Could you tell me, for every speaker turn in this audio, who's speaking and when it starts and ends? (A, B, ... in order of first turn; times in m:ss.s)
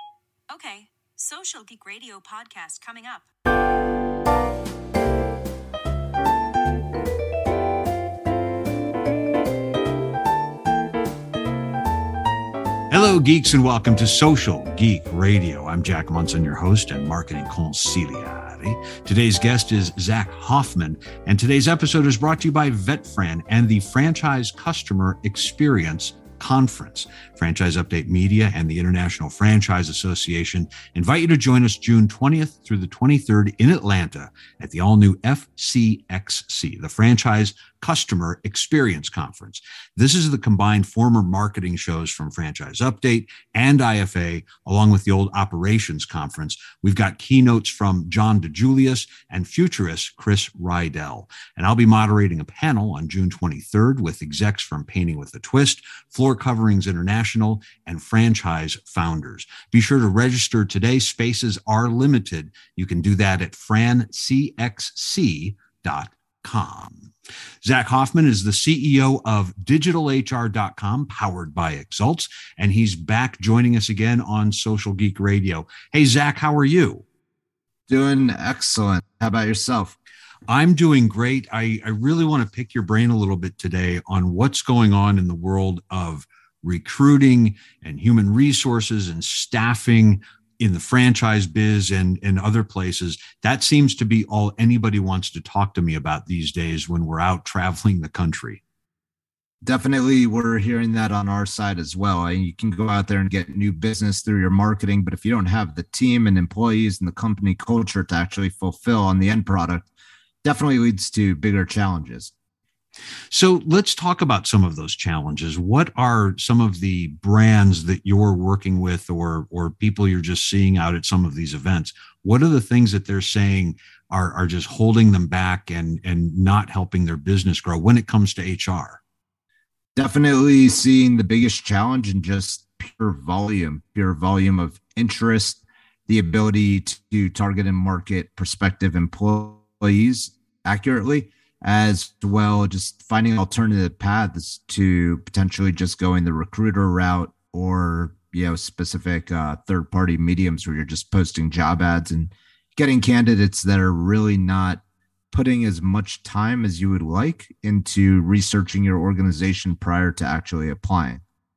0:00.5-0:03.3 A
0:12.9-1:07.1 B
1:07.6-1:17.0 B
1:17.9-1:20.0 C
1:20.5-1:38.6 B
1:39.6-1:49.9 C
1:50.4-1:52.3 C
1:53.3-2:09.0 B
2:10.0-2:41.2 C